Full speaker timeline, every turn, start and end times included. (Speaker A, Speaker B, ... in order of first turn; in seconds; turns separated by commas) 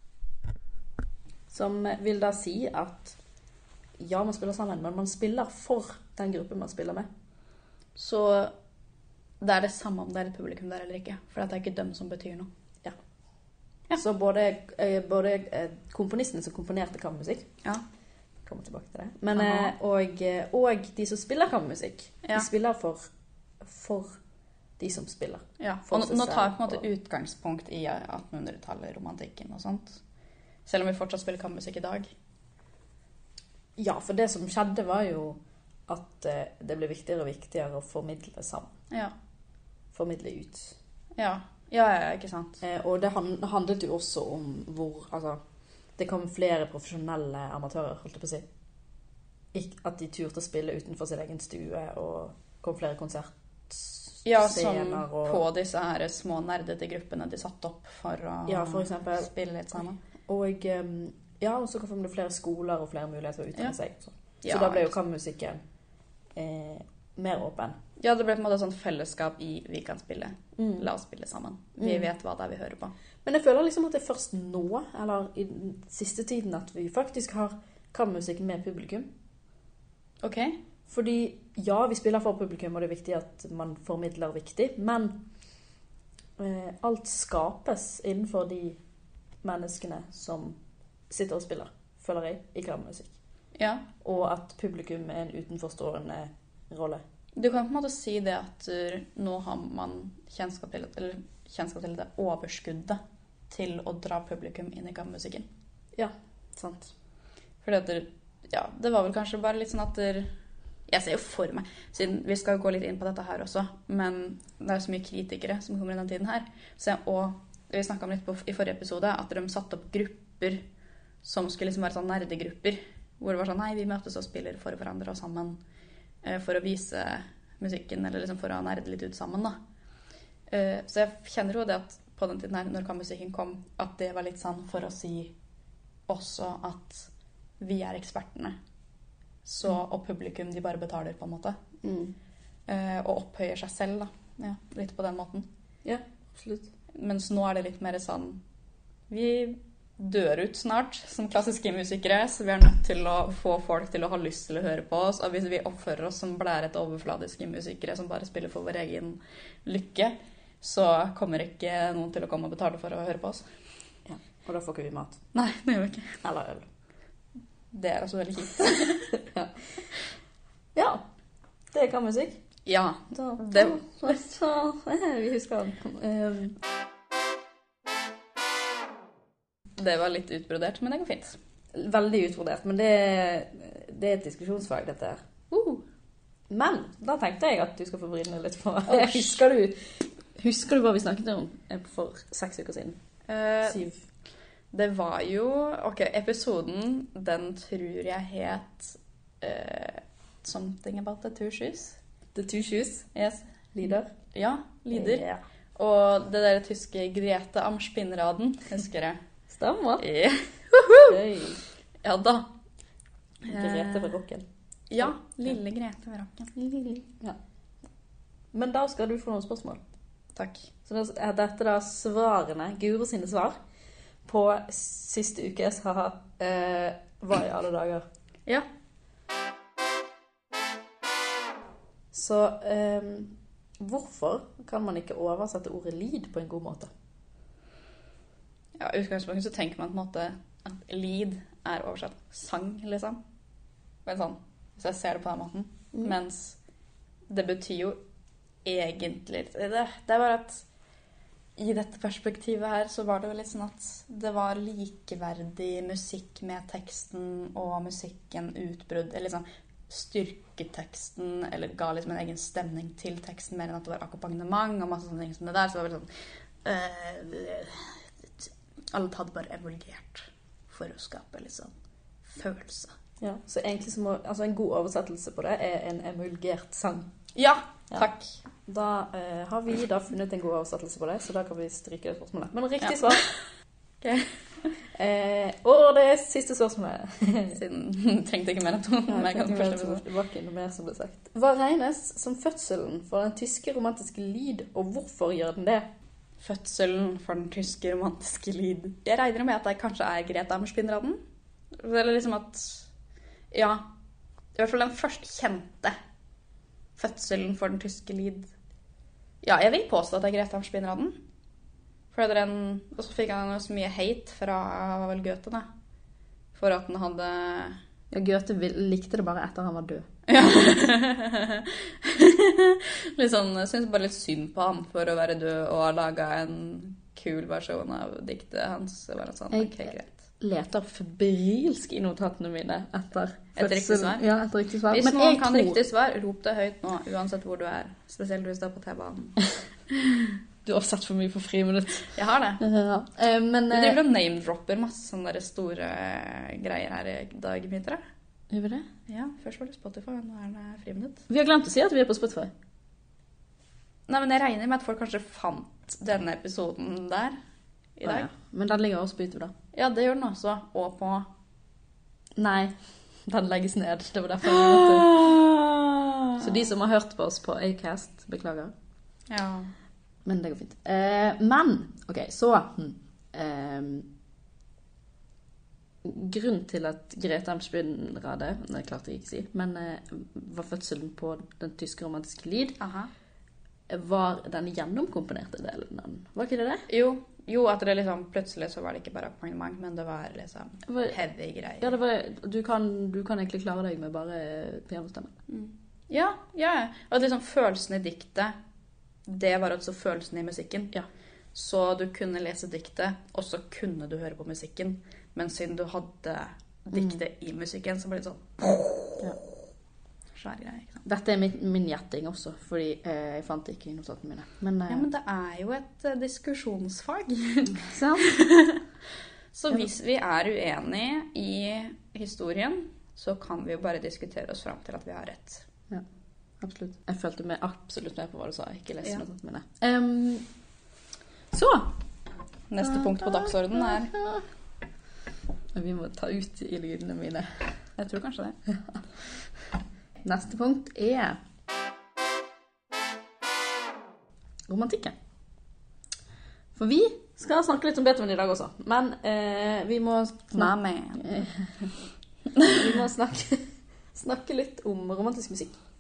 Speaker A: 1.5-3.2, Speaker A: 4.0-7.1, Speaker B: 8.0-8.5, Speaker B: 9.4-12.5, Speaker A: 13.9-17.5, Speaker A: 18.5-23.1, Speaker B: 19.3-19.7, Speaker A: 23.6-24.2, Speaker A: 24.8-26.9, Speaker B: 25.6-30.0, Speaker B: 30.7-32.1, Speaker A: 33.8-38.7, Speaker A: 39.9-40.8, Speaker B: 41.2-42.6, Speaker A: 42.6-45.4, Speaker A: 46.0-48.5, Speaker A: 49.5-55.4, Speaker B: 54.2-60.0, Speaker A: 58.5-59.3, Speaker A: 60.3-65.6, Speaker B: 64.4-64.9, Speaker A: 66.4-67.8, Speaker B: 68.0-72.9, Speaker A: 70.6-70.9, Speaker A: 71.8-72.1, Speaker A: 73.2-79.1, Speaker B: 80.2-80.6, Speaker A: 80.9-85.2, Speaker A: 86.4-88.8, Speaker A: 89.4-90.6, Speaker A: 91.1-93.2, Speaker B: 93.5-93.9, Speaker A: 94.0-97.0, Speaker B: 97.3-105.5, Speaker A: 106.0-106.9, Speaker B: 107.6-110.3, Speaker B: 110.9-120.6, Speaker B: 121.2-125.6, Speaker B: 126.2-129.6, Speaker B: 130.5-135.3, Speaker B: 136.1-138.6, Speaker B: 139.4-141.6, Speaker A: 141.8-142.1, Speaker B: 142.7-145.5, Speaker A: 145.8-146.7, Speaker B: 146.9-148.4, Speaker B: 149.1-163.4, Speaker A: 164.1-165.2, Speaker B: 165.3-166.2, Speaker A: 166.2-166.7, Speaker B: 167.7-169.1, Speaker A: 169.1-169.6, Speaker A: 170.8-171.1, Speaker A: 171.7-172.4, Speaker B: 172.7-174.2, Speaker A: 173.1-176.6, Speaker B: 179.8-181.4, Speaker A: 181.7-185.3, Speaker B: 185.5-185.8, Speaker A: 186.5-193.0, Speaker B: 188.9-189.4, Speaker B: 193.3-193.8, Speaker A: 193.6-194.0, Speaker B: 194.7-202.0, Speaker A: 202.3-203.1, Speaker B: 203.2-203.4, Speaker A: 203.7-204.1, Speaker B: 204.3-205.2, Speaker A: 204.9-205.4, Speaker B: 205.8-209.2, Speaker A: 209.5-210.1, Speaker B: 210.0-211.2, Speaker A: 211.0-211.6, Speaker B: 212.0-212.5, Speaker B: 213.4-214.2, Speaker A: 213.4-214.4, Speaker B: 214.9-216.5, Speaker A: 216.6-217.4, Speaker A: 218.5-219.8, Speaker B: 220.3-220.7, Speaker A: 220.9-223.6, Speaker A: 224.3-228.1, Speaker A: 232.1-236.9, Speaker B: 238.8-243.2, Speaker B: 244.1-246.6, Speaker B: 247.3-248.0, Speaker B: 248.6-250.7, Speaker B: 251.6-266.1, Speaker B: 266.6-271.7, Speaker B: 272.2-272.9, Speaker A: 273.2-277.1, Speaker B: 277.4-278.4, Speaker A: 278.7-283.2, Speaker B: 282.8-283.4, Speaker B: 284.0-284.3, Speaker A: 284.9-287.6, Speaker B: 287.5-290.0, Speaker A: 289.1-295.9, Speaker B: 296.4-301.2, Speaker B: 301.8-302.9, Speaker B: 303.5-303.9, Speaker B: 304.6-305.9, Speaker B: 307.0-308.5, Speaker B: 309.4-311.2, Speaker B: 312.1-315.7, Speaker B: 316.6-317.8, Speaker A: 318.1-320.1, Speaker B: 320.3-330.1, Speaker A: 329.5-335.8, Speaker B: 333.6-334.2, Speaker B: 334.9-339.4, Speaker A: 340.6-344.0, Speaker B: 342.1-342.6, Speaker B: 343.7-348.0, Speaker A: 348.5-348.9, Speaker B: 349.1-351.2, Speaker A: 351.3-352.5, Speaker B: 354.1-357.4, Speaker B: 358.0-358.3, Speaker A: 358.0-359.5, Speaker B: 359.7-361.3, Speaker A: 362.4-362.8, Speaker A: 363.3-365.3, Speaker B: 364.4-366.5, Speaker A: 366.4-368.7, Speaker B: 369.3-369.7, Speaker A: 370.2-374.1, Speaker A: 376.0-382.8, Speaker B: 382.8-383.1, Speaker A: 383.9-386.9, Speaker B: 386.9-392.0, Speaker A: 390.9-391.2, Speaker A: 391.8-395.4, Speaker B: 395.5-398.5, Speaker B: 399.3-400.9, Speaker B: 401.5-408.8, Speaker A: 406.9-407.2, Speaker B: 410.4-411.0, Speaker A: 411.1-415.1, Speaker B: 414.9-418.8, Speaker A: 417.8-418.4, Speaker B: 419.5-425.7, Speaker A: 426.6-430.5, Speaker A: 431.5-431.9, Speaker B: 432.7-434.1, Speaker A: 432.8-434.4, Speaker A: 435.7-437.7, Speaker B: 438.0-438.6, Speaker A: 438.7-439.0, Speaker A: 440.2-441.4, Speaker A: 444.7-445.1, Speaker A: 446.8-451.7, Speaker B: 450.5-451.4, Speaker A: 452.6-455.8